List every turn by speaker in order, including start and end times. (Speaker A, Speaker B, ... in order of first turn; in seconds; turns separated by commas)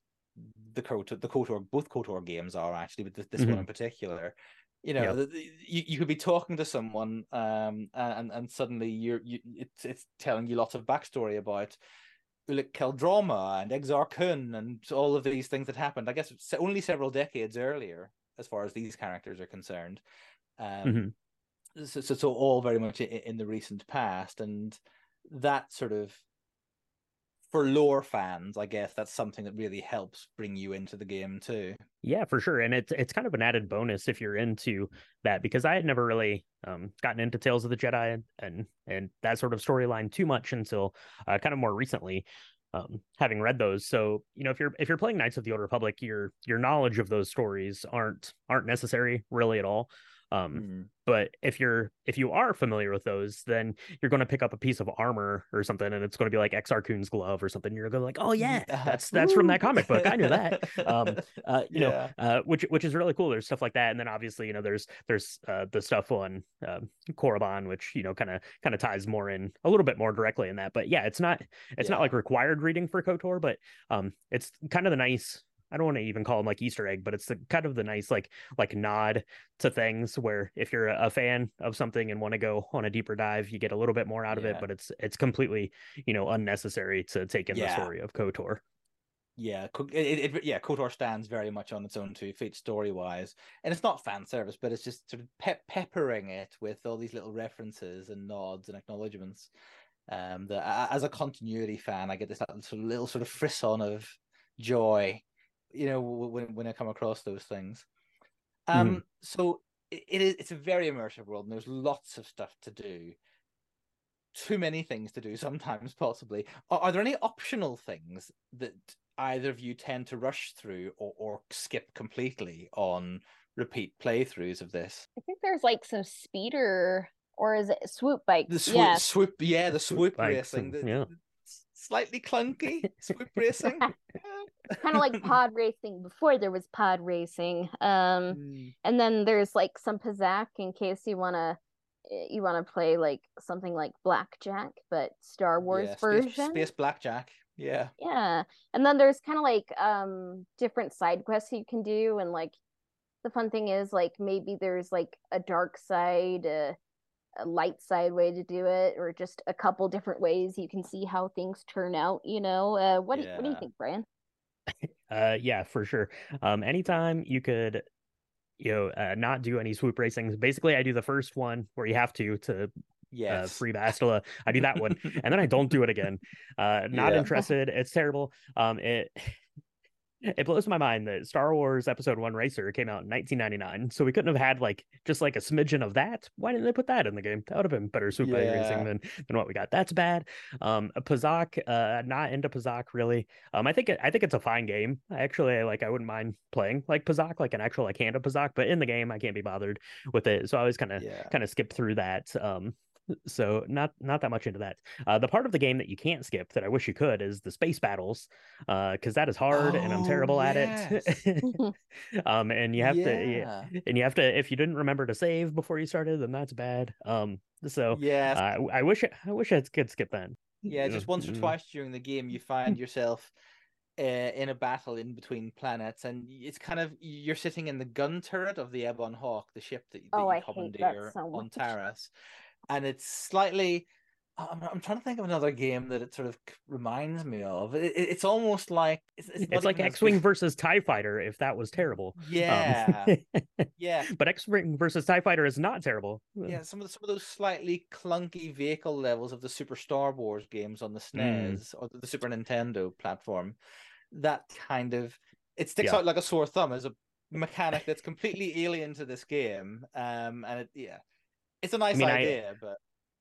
Speaker A: 0.4-11.8, Speaker B: 3.4-3.6, Speaker A: 12.5-20.0, Speaker A: 20.6-21.1, Speaker B: 20.9-21.1, Speaker A: 21.8-26.2, Speaker A: 27.5-31.8, Speaker B: 32.0-88.6, Speaker A: 50.5-50.9, Speaker A: 58.4-62.1, Speaker A: 71.8-72.1, Speaker A: 84.3-84.7, Speaker A: 87.5-87.9, Speaker A: 89.4-99.5, Speaker A: 100.1-107.9, Speaker A: 108.7-113.2, Speaker B: 108.7-109.0, Speaker A: 114.3-125.1, Speaker C: 125.2-129.0, Speaker A: 128.5-133.9, Speaker B: 130.2-131.1, Speaker C: 134.7-146.7, Speaker A: 134.7-135.3, Speaker A: 138.3-138.7, Speaker A: 145.7-147.9, Speaker C: 148.0-152.6, Speaker C: 153.2-156.8, Speaker C: 157.4-164.1, Speaker A: 163.1-163.7, Speaker B: 164.8-167.8, Speaker B: 168.6-172.7, Speaker A: 173.1-173.6, Speaker B: 173.3-179.4, Speaker A: 174.7-175.2, Speaker A: 176.9-177.3, Speaker B: 180.2-221.5, Speaker A: 188.2-188.9, Speaker A: 201.0-201.3, Speaker A: 209.5-211.2, Speaker A: 212.8-213.7, Speaker A: 217.9-218.4, Speaker A: 220.7-223.3, Speaker A: 224.0-232.1, Speaker C: 230.1-231.7, Speaker A: 232.7-233.9, Speaker A: 234.4-240.2, Speaker B: 239.4-246.6, Speaker A: 242.2-243.1, Speaker A: 243.8-244.1, Speaker A: 246.4-253.6, Speaker B: 251.2-251.6, Speaker A: 254.1-261.0, Speaker A: 261.6-262.8, Speaker B: 261.9-262.4